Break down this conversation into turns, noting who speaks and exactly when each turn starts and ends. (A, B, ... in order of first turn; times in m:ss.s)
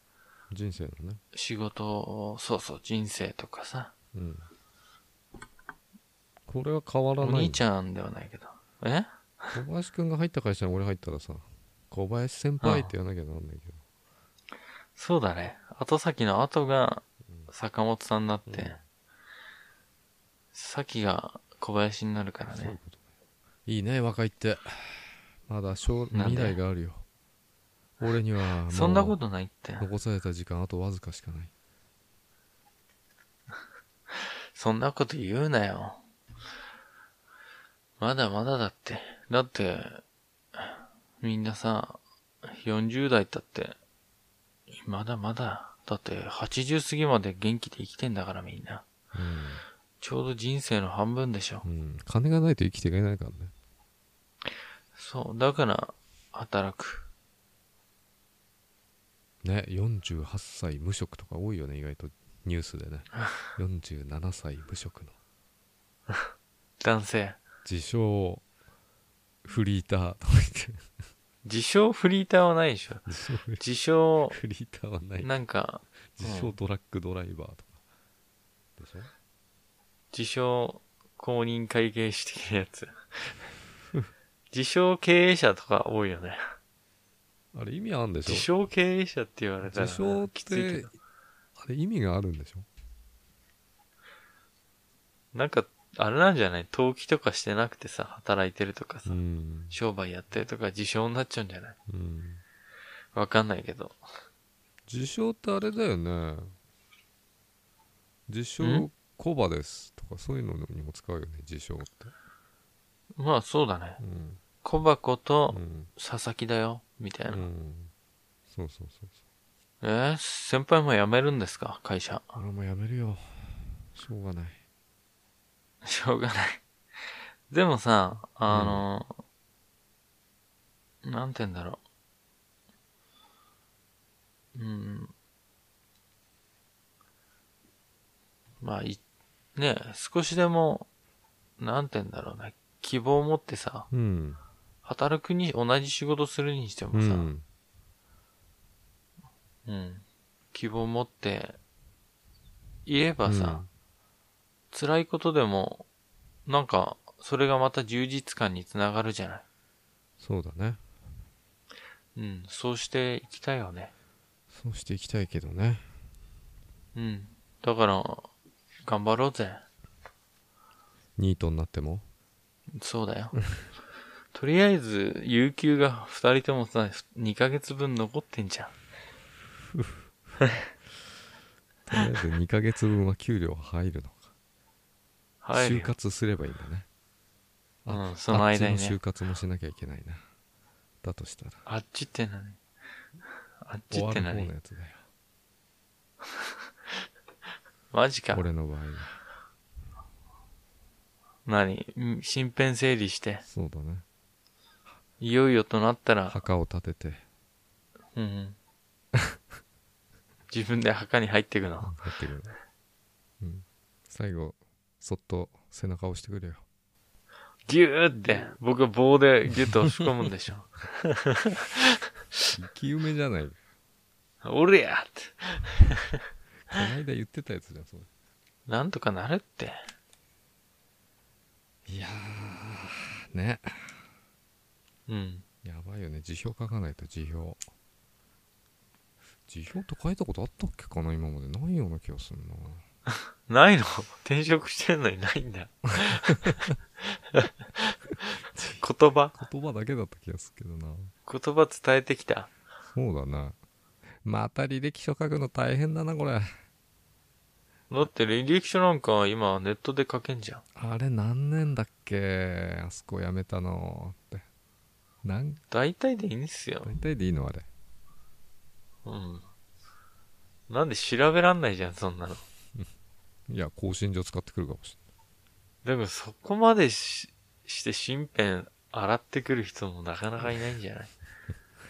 0:00.5-0:01.2 A
0:01.3-0:03.9 B
0:04.1-0:04.5 A
0:06.5-0:07.6 A
0:07.2-0:09.6 B
0:09.5-0:13.8 A
0:12.6-0:12.9 B
0:15.0-0:18.8 B
0:18.5-0:18.8 A
0:20.5-0:22.8 B
0:22.5-0:23.0 A
0:23.7-0:27.0 A
0:26.1-0:26.6 B
0:28.0-0:29.2 A
0:28.7-0:29.9 B
0:29.8-0:31.5 A
0:34.1-0:36.0 B
0:38.0-0:40.0 B
0:40.6-0:43.8 B
0:44.7-0:48.9 B
0:49.1-0:49.6 A
0:50.0-0:51.7 B
0:51.6-0:53.5 A
0:55.0-0:57.1 B
0:59.4-1:05.1 A
1:06.8-1:07.4 B
1:07.6-1:08.4 A
1:09.4-1:10.9 A
1:11.4-1:13.0 B
1:13.1-1:13.6 A
1:13.6-1:14.4 B
1:14.3-1:15.3 A
1:15.2-1:16.6 B
1:16.2-1:17.8 A
1:18.8-1:19.1 A
1:20.1-1:23.4 B
1:24.5-1:26.4 B
1:27.5-1:28.5 A
1:28.3-1:30.9 B
1:29.6-1:30.9 A
1:31.6-1:32.7 A
1:35.3-1:39.2 B
1:39.1-1:39.8 A
1:39.7-1:41.8 B
1:41.9-1:42.4 A
1:43.1-1:44.0 B
1:44.9-1:46.6 A
1:48.3-1:52.1 A
1:48.6-1:48.9 B
1:53.2-1:54.0 B
1:54.0-1:54.4 A
1:54.6-1:57.5 B
1:55.5-1:55.9 A
1:57.3-1:57.9 A
1:58.5-1:59.2 A
1:59.8-2:02.4 B
2:02.4-2:04.6 A
2:05.8-2:06.6 B
2:07.5-2:09.2 B
2:08.5-2:08.9 A
2:11.0-2:11.8 B
2:14.6-2:15.1 B
2:18.6-2:19.0 B
2:19.6-2:20.9 B
2:21.6-2:23.9 B
2:23.9-2:24.4 A
2:24.8-2:27.3 B
2:26.9-2:27.4 A
2:29.7-2:31.6 B
2:32.9-2:33.6 B
2:33.2-2:33.7 A
2:34.7-2:35.9 B
2:36.5-2:39.4 B
2:40.2-2:40.8 A
2:42.2-2:43.9 B
2:44.5-2:45.9 A
2:47.0-2:48.3 B
2:48.8-2:49.6 B
2:51.2-2:52.0 A
2:52.8-2:53.4 B
2:53.4-2:53.6 A
2:54.3-2:58.7 B
2:59.6-3:00.0 A
3:01.9-3:04.3 A
3:05.4-3:05.9 B
3:05.5-3:06.9 A
3:07.8-3:10.2 A
3:07.9-3:09.0 B
3:11.0-3:11.6 A
3:11.7-3:12.6 B
3:13.6-3:14.5 B
3:13.9-3:15.0 A
3:17.9-3:18.4 B
3:18.3-3:19.2 A
3:21.5-3:23.4 B
3:23.4-3:24.0 A
3:25.2-3:26.4 B
3:26.3-3:27.2 A
3:28.2-3:28.6 B
3:30.5-3:32.0 B
3:31.8-3:32.6 A
3:33.4-3:36.6 A
3:37.7-3:42.0 B
3:42.5-3:43.6 A
3:44.4-3:46.2 B
3:46.7-3:48.1 A
3:48.7-3:49.8 B
3:51.9-3:54.0 A
3:55.1-3:55.4 B
3:55.6-3:57.6 A
3:59.5-4:02.8 A
4:03.5-4:09.4 B
4:08.5-4:08.8 A
4:09.3-4:11.1 A
4:11.3-4:12.5 B
4:13.0-4:13.6 A
4:14.2-4:16.5 A
4:17.9-4:20.6 B
4:20.8-4:24.4 A
4:25.2-4:25.6 A
4:25.7-4:26.9 B
4:26.8-4:27.7 A
4:29.0-4:29.5 B
4:30.7-4:32.4 B
4:33.5-4:35.0 A
4:35.8-4:41.1 B